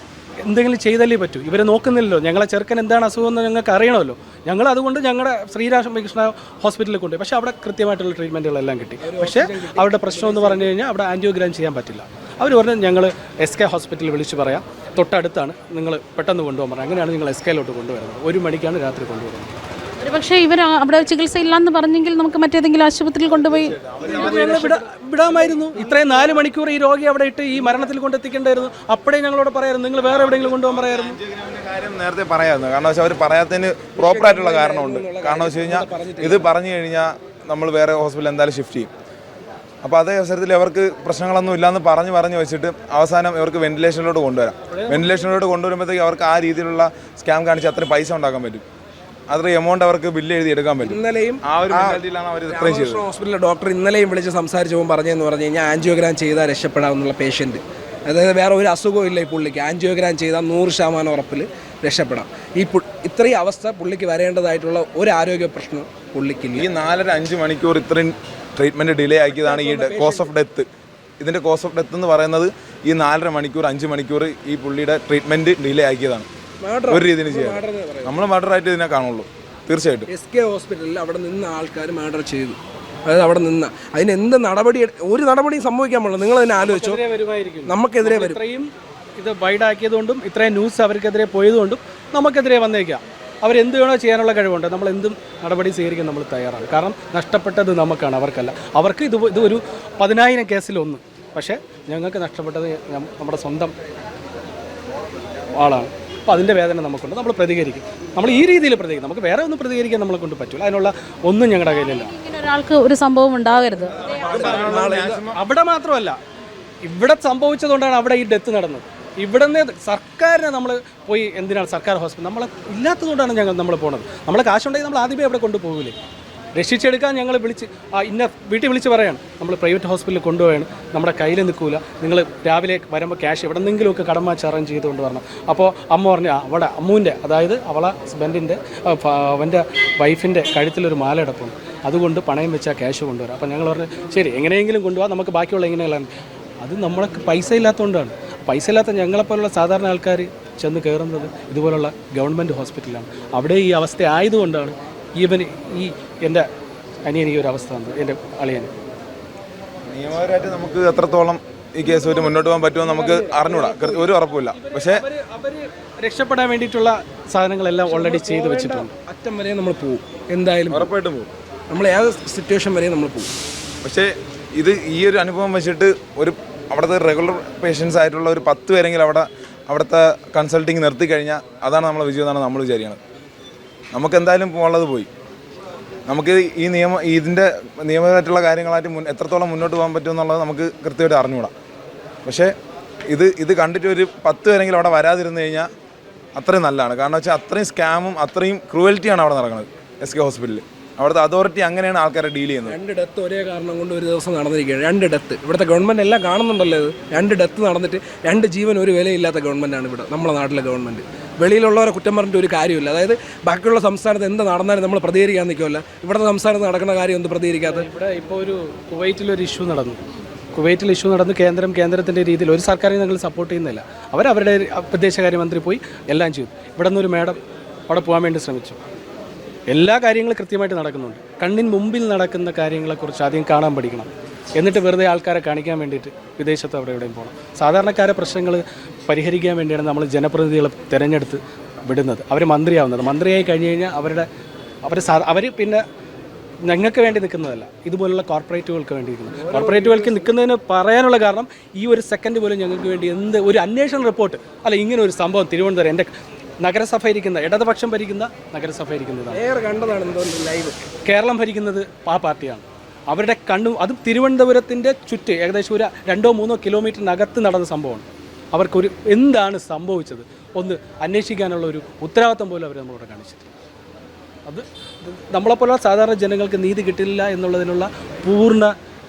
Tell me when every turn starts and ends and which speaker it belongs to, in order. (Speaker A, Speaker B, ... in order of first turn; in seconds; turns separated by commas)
Speaker A: 0.4-19.5, Speaker B: 9.0-10.7, Speaker C: 20.0-23.8, Speaker D: 23.3-24.9, Speaker A: 24.0-31.2, Speaker B: 24.1-24.7, Speaker B: 25.2-26.5, Speaker D: 30.1-38.9, Speaker B: 34.0-36.5, Speaker D: 39.8-48.6, Speaker A: 44.7-45.4, Speaker D: 49.3-53.0, Speaker B: 50.8-66.7, Speaker D: 66.6-70.7, Speaker B: 69.3-70.3, Speaker D: 71.2-76.3, Speaker B: 76.6-78.2, Speaker D: 76.9-80.1, Speaker B: 80.1-87.0, Speaker A: 86.6-103.7, Speaker B: 87.7-88.4, Speaker A: 105.5-112.1, Speaker C: 111.7-114.6, Speaker D: 113.9-115.4, Speaker B: 114.1-115.2, Speaker A: 114.3-116.2, Speaker A: 116.8-126.0, Speaker A: 126.6-146.1, Speaker A: 146.6-156.5, Speaker A: 157.1-158.7, Speaker D: 159.9-165.0, Speaker B: 161.8-164.2, Speaker A: 164.4-168.9, Speaker B: 167.9-170.9, Speaker D: 170.7-171.3, Speaker B: 171.7-173.3, Speaker D: 173.8-183.0, Speaker D: 183.9-185.1, Speaker D: 186.1-191.5, Speaker D: 192.3-192.5, Speaker D: 193.1-195.7, Speaker D: 196.3-202.8, Speaker B: 202.7-217.9, Speaker A: 217.6-220.0, Speaker A: 220.6-227.4, Speaker A: 227.9-228.8, Speaker A: 229.7-244.3, Speaker A: 244.8-245.8, Speaker A: 246.7-259.4, Speaker B: 249.3-250.3, Speaker B: 259.3-260.9, Speaker A: 261.1-273.5, Speaker A: 274.5-278.7